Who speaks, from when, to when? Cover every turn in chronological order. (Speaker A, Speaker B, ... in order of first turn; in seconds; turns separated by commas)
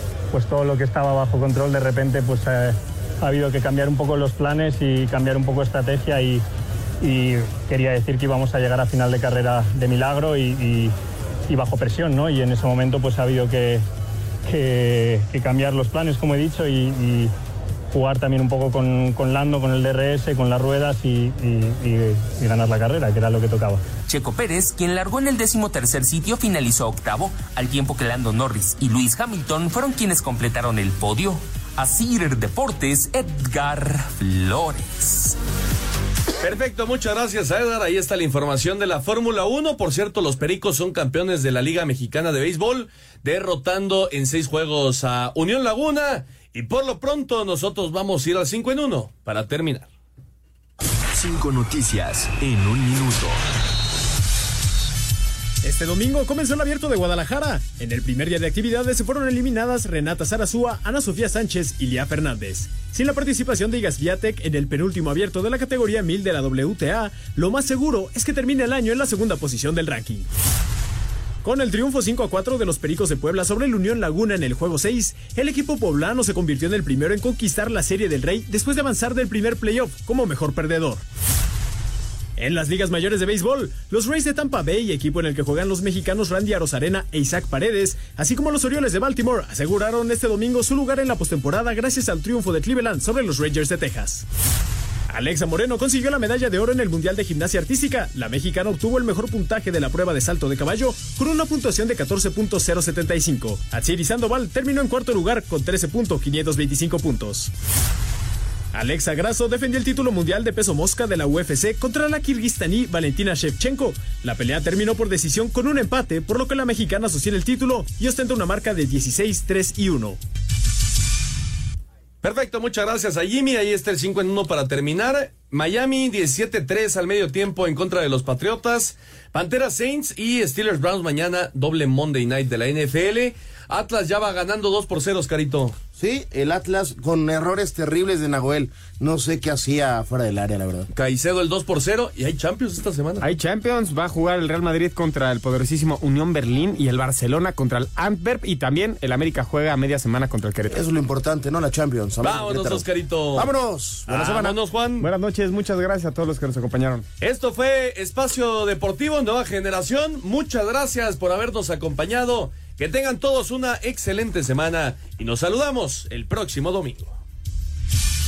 Speaker A: 0.3-6.4, Speaker A: 7.0-10.9, Speaker A: 11.5-13.8, Speaker A: 14.4-17.3, Speaker A: 17.9-23.8, Speaker B: 24.1-35.3, Speaker C: 36.4-49.9, Speaker D: 51.2-53.4, Speaker E: 55.6-70.3, Speaker E: 71.4-81.0, Speaker E: 82.4-94.2, Speaker E: 95.1-107.5, Speaker E: 108.7-120.2, Speaker C: 122.2-135.7, Speaker F: 136.0-140.9, Speaker C: 140.9-143.2, Speaker G: 143.2-150.8, Speaker F: 150.7-154.6, Speaker C: 152.2-153.5, Speaker C: 154.1-155.1, Speaker G: 155.0-157.0, Speaker C: 157.2-167.2